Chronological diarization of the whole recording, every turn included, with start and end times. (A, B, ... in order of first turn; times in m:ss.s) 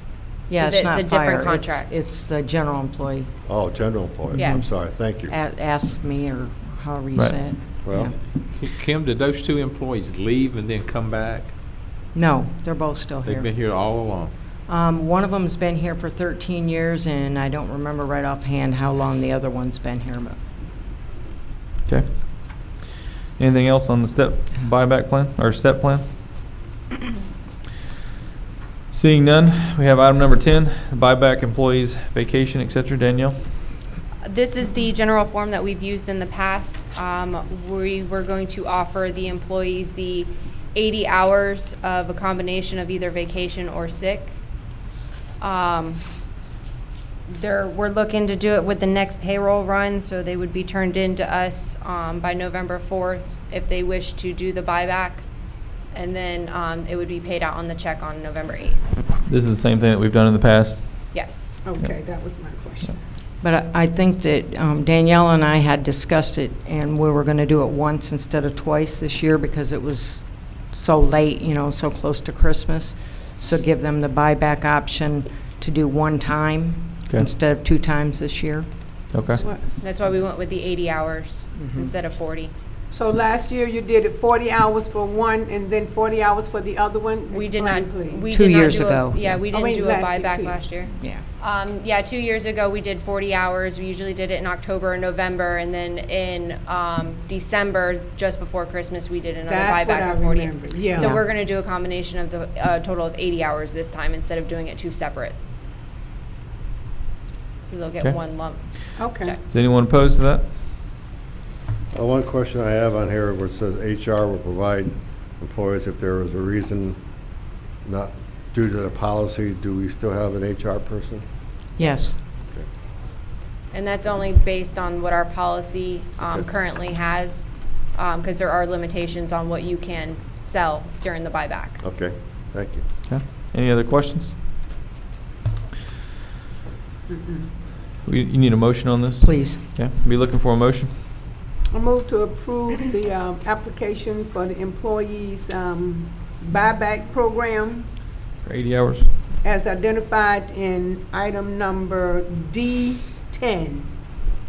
0:00.5-0:03.3 A
0:00.5-0:02.0 B
0:03.5-0:05.3 C
0:04.3-0:04.7 B
0:04.3-0:08.1 A
0:07.2-0:07.4 D
0:07.8-0:08.1 C
0:08.5-0:11.5 E
0:12.1-0:13.6 A
0:13.2-0:14.3 E
0:14.7-0:20.4 A
0:21.9-0:22.8 D
0:23.4-0:26.1 D
0:28.9-0:33.4 D
0:34.2-0:44.4 B
0:45.4-0:46.0 B
0:47.3-0:55.3 B
0:55.9-0:58.8 B
0:59.3-1:01.1 D
1:01.1-1:01.6 B
1:01.6-1:03.0 F
1:03.4-1:18.7 A
1:19.1-1:19.4 D
1:19.8-1:22.5 B
1:21.6-1:21.9 A
1:22.9-1:28.3 F
1:27.3-1:45.4 B
1:28.3-1:29.4 A
1:29.5-1:30.6 F
1:39.5-1:41.1 F
1:41.0-1:41.2 A
1:47.6-1:49.4 B
1:49.0-1:49.4 F
1:49.5-1:50.4 D
1:51.9-1:57.0 C
1:57.8-2:01.2 C
2:01.8-2:02.2 A
2:03.7-2:11.8 B
2:11.8-2:12.8 C
2:13.1-2:14.4 D
2:17.1-2:17.5 F
2:18.0-2:20.9 D
2:19.2-2:19.6 A
2:21.7-2:27.9 F
2:28.4-2:29.1 D
2:29.4-2:33.9 F